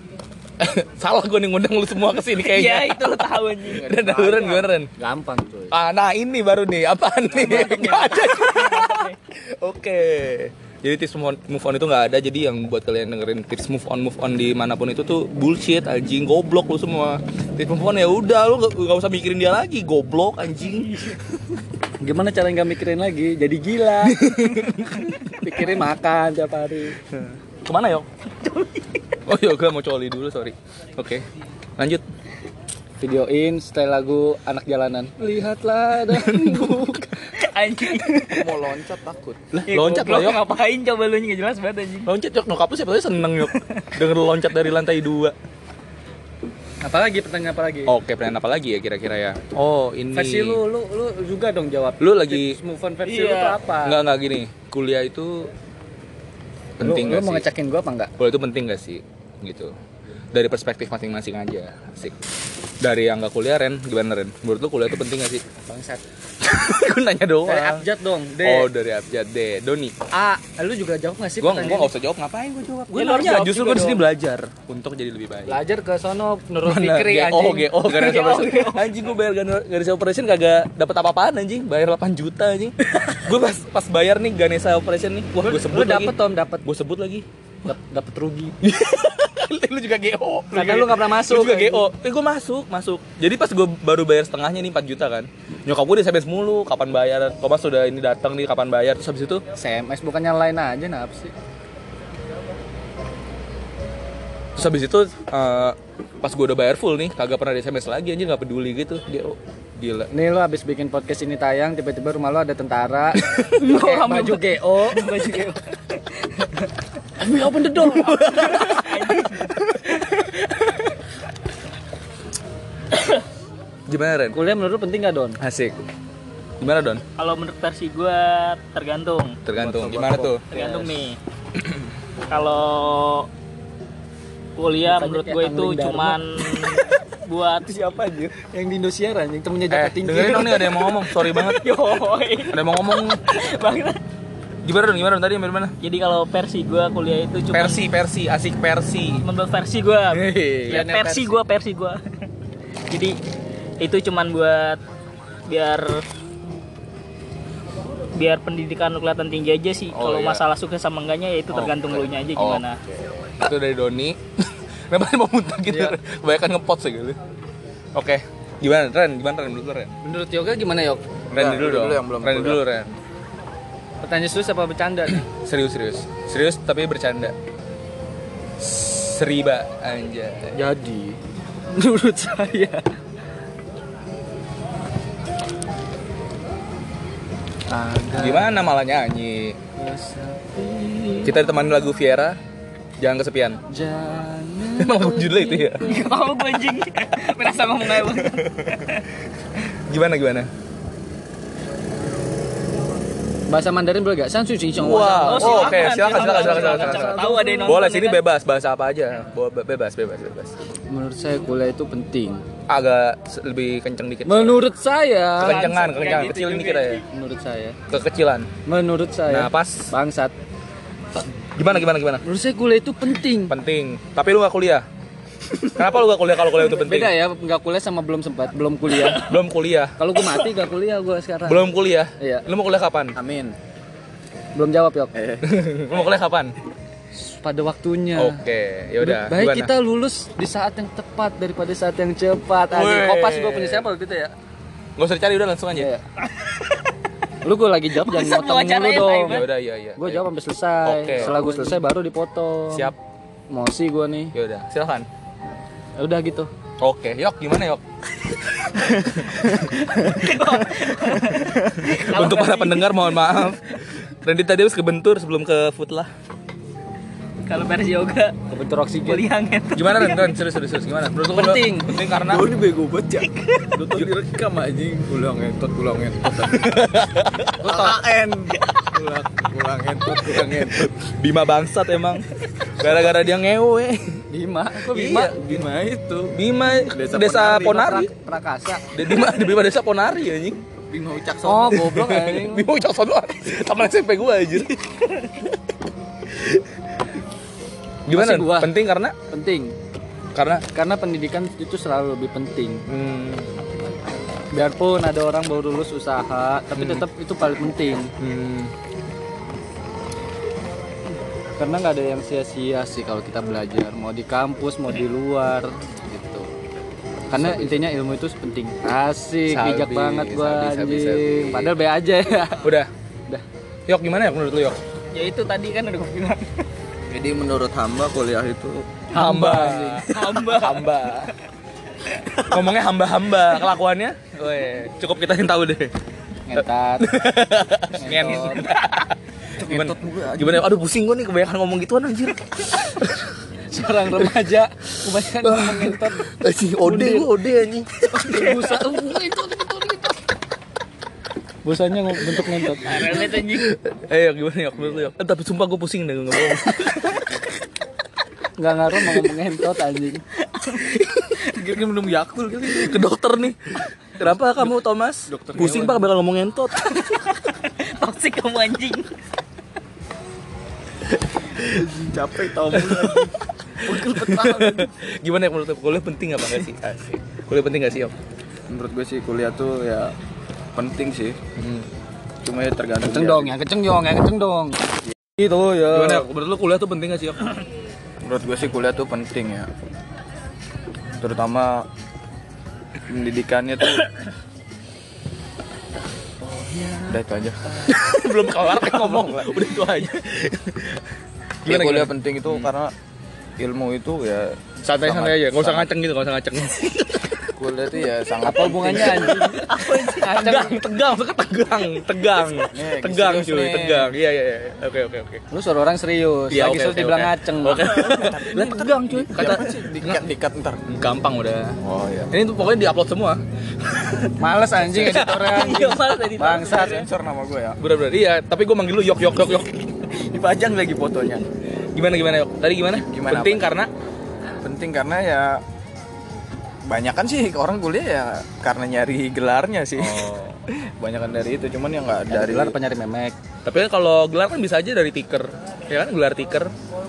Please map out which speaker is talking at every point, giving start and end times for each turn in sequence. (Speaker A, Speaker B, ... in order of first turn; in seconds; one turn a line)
Speaker A: 0.6-4.9
Speaker B: 2.4-3.9
Speaker C: 3.7-4.7
Speaker D: 5.0-5.8
Speaker A: 5.7-21.1
Speaker B: 7.4-9.2
Speaker D: 22.0-27.0
Speaker A: 24.0-25.1
Speaker A: 27.2-28.1
Speaker B: 28.3-29.2
Speaker A: 29.2-31.2
Speaker A: 31.8-32.0
Speaker D: 33.0-37.1
Speaker A: 36.1-37.1
Speaker B: 37.3-38.6
Speaker C: 38.3-39.4
Speaker A: 39.5-40.4
Speaker B: 39.7-42.1
Speaker A: 42.0-45.4
Speaker B: 43.5-43.9
Speaker D: 46.8-47.9
Speaker A: 47.9-50.6
Speaker D: 50.1-54.0
Speaker A: 52.0-52.6
Speaker B: 53.0-53.6
Speaker A: 53.8-55.5
Speaker A: 56.8-57.5
Speaker D: 56.8-58.1
Speaker A: 58.2-59.7
Speaker A: 60.3-62.2
Speaker A: 62.8-65.4
Speaker D: 65.7-66.0
Speaker A: 66.4-67.9
Speaker D: 67.4-68.7
Speaker A: 68.4-70.0
Speaker D: 70.1-71.9
Speaker A: 71.4-75.6
Speaker B: 72.9-74.0
Speaker D: 75.5-77.7
Speaker A: 76.6-87.3
Speaker B: 77.8-78.9
Speaker D: 85.4-86.7
Speaker D: 87.7-88.5
Speaker A: 88.6-99.4
Speaker D: 90.5-91.9
Speaker D: 99.6-101.3
Speaker A: 104.6-110.1
Speaker D: 110.1-115.1
Speaker A: 113.2-113.6
Speaker B: 113.5-116.7
Speaker D: 117.2-118.2
Speaker A: 117.3-120.0
Speaker B: 118.1-120.1
Speaker A: 123.9-124.4
Speaker D: 124.3-125.4
Speaker A: 125.4-125.8
Speaker A: 126.6-127.0
Speaker B: 127.2-129.4
Speaker A: 129.4-130.4
Speaker D: 129.6-131.0
Speaker B: 130.5-131.2
Speaker B: 132.3-133.3
Speaker B: 134.6-138.3
Speaker D: 134.8-136.2
Speaker D: 138.3-140.7
Speaker A: 139.7-141.8
Speaker B: 140.9-144.0
Speaker A: 142.5-143.2
Speaker A: 144.6-145.8
Speaker B: 145.8-147.9
Speaker A: 147.5-149.2
Speaker B: 149.2-152.0
Speaker A: 150.1-150.9
Speaker D: 150.7-151.4
Speaker B: 152.9-153.2
Speaker B: 153.8-154.8
Speaker B: 155.5-156.1
Speaker B: 158.2-162.8
Speaker A: 159.9-160.4
Speaker A: 161.5-162.6
Speaker A: 163.2-167.2
Speaker D: 165.7-165.9
Speaker A: 167.9-169.9
Speaker D: 170.0-171.0
Speaker C: 171.3-172.6
Speaker A: 171.3-172.9
Speaker D: 174.0-175.2
Speaker A: 175.2-177.3
Speaker A: 178.6-180.6
Speaker D: 180.5-181.2
Speaker D: 181.7-182.9
Speaker D: 187.7-188.6
Speaker A: 188.2-189.6
Speaker D: 189.8-191.4
Speaker A: 191.2-192.4
Speaker A: 193.0-193.6
Speaker D: 193.7-196.1
Speaker A: 194.8-195.9
Speaker B: 195.8-199.1
Speaker A: 198.0-198.8
Speaker A: 199.9-200.5
Speaker D: 203.5-207.8
Speaker A: 204.8-210.6
Speaker B: 205.3-208.2
Speaker D: 210.9-212.4
Speaker A: 212.7-214.6
Speaker D: 214.2-215.7
Speaker A: 215.4-217.0
Speaker B: 215.4-217.0
Speaker D: 217.1-217.8
Speaker A: 217.9-218.5
Speaker D: 218.7-220.3
Speaker A: 219.3-219.9
Speaker A: 221.6-222.2
Speaker D: 222.2-223.6
Speaker A: 223.4-224.8
Speaker A: 225.7-227.2
Speaker D: 226.5-229.3
Speaker A: 229.1-230.0
Speaker D: 230.0-232.5
Speaker A: 231.5-233.2
Speaker C: 233.2-233.6
Speaker D: 234.6-235.1
Speaker C: 235.1-235.7
Speaker A: 235.4-236.6
Speaker D: 237.1-238.4
Speaker A: 238.2-239.7
Speaker D: 239.0-244.3
Speaker A: 242.7-243.9
Speaker A: 245.0-245.9
Speaker D: 245.7-246.0
Speaker D: 247.4-249.5
Speaker B: 248.0-249.5
Speaker A: 249.2-250.2
Speaker D: 250.0-252.9
Speaker A: 250.8-251.7
Speaker A: 252.7-252.9
Speaker D: 253.5-254.3
Speaker A: 254.3-255.1
Speaker D: 256.0-256.5
Speaker A: 256.8-259.1
Speaker B: 259.9-263.6
Speaker A: 261.8-266.1
Speaker B: 267.5-268.4
Speaker D: 268.5-269.3
Speaker B: 269.1-270.4
Speaker A: 269.7-272.5
Speaker D: 271.3-272.0
Speaker C: 272.2-277.0
Speaker B: 273.2-273.8
Speaker A: 276.6-278.0
Speaker C: 277.5-280.9
Speaker A: 280.1-282.3
Speaker A: 282.8-284.2
Speaker D: 284.3-285.4
Speaker A: 284.9-285.6
Speaker C: 285.1-286.4
Speaker A: 286.3-288.1
Speaker C: 286.9-287.8
Speaker D: 287.2-288.9
Speaker A: 288.9-290.6
Speaker C: 290.9-291.9
Speaker D: 291.4-292.7
Speaker A: 291.7-294.8
Speaker A: 296.3-296.6
Speaker A: 298.1-299.1
Speaker D: 298.1-298.7
Speaker D: 299.3-299.8
Speaker A: 300.3-300.6
Speaker D: 300.7-302.9
Speaker A: 302.9-303.6
Speaker D: 304.5-308.1
Speaker A: 306.8-307.1
Speaker A: 308.2-308.7
Speaker D: 311.6-316.5
Speaker D: 317.3-322.7
Speaker A: 317.3-317.9
Speaker A: 319.5-321.7
Speaker A: 322.6-322.9
Speaker A: 323.9-324.8
Speaker B: 325.1-326.6
Speaker C: 327.1-329.2
Speaker A: 329.1-331.3
Speaker D: 329.2-330.1
Speaker B: 330.1-330.9
Speaker A: 332.5-335.9
Speaker D: 336.5-337.1
Speaker A: 336.6-343.3
Speaker D: 337.9-338.7
Speaker C: 339.6-340.7
Speaker D: 343.7-346.3
Speaker A: 345.2-348.8
Speaker D: 346.8-347.3
Speaker D: 348.1-350.1
Speaker D: 351.6-353.2
Speaker B: 352.8-353.7
Speaker A: 353.0-357.2
Speaker D: 358.6-360.2
Speaker B: 360.5-360.9
Speaker A: 360.9-361.4
Speaker C: 361.4-363.0
Speaker A: 362.7-367.1
Speaker C: 365.3-366.0
Speaker B: 366.9-369.1
Speaker C: 371.6-374.9
Speaker A: 372.7-373.3
Speaker A: 373.9-378.1
Speaker C: 378.7-380.1
Speaker C: 380.8-381.4
Speaker A: 381.6-381.9
Speaker C: 382.4-383.6
Speaker D: 383.1-384.8
Speaker D: 385.4-386.3
Speaker A: 385.9-387.6
Speaker C: 388.2-389.7
Speaker C: 391.2-391.9
Speaker C: 393.1-394.1
Speaker D: 396.7-397.1
Speaker C: 397.1-397.8
Speaker A: 397.8-401.0
Speaker C: 398.8-399.6
Speaker A: 401.6-402.7
Speaker C: 401.6-402.9
Speaker C: 403.6-405.9
Speaker A: 404.8-407.5
Speaker C: 407.5-409.6
Speaker D: 408.4-410.8
Speaker A: 409.2-415.4
Speaker B: 409.7-410.3
Speaker C: 412.6-414.1
Speaker D: 415.5-418.0
Speaker A: 416.5-420.2
Speaker C: 417.9-420.8
Speaker A: 420.9-421.8
Speaker C: 421.8-422.3
Speaker A: 422.3-423.4
Speaker D: 424.4-427.1
Speaker A: 424.8-425.5
Speaker B: 425.3-427.0
Speaker C: 426.5-427.8
Speaker A: 427.8-429.9
Speaker C: 430.1-431.5
Speaker A: 431.9-433.9
Speaker C: 432.9-433.8
Speaker C: 434.6-435.6
Speaker C: 436.9-442.8
Speaker A: 440.0-440.6
Speaker D: 442.3-443.4
Speaker A: 443.6-446.7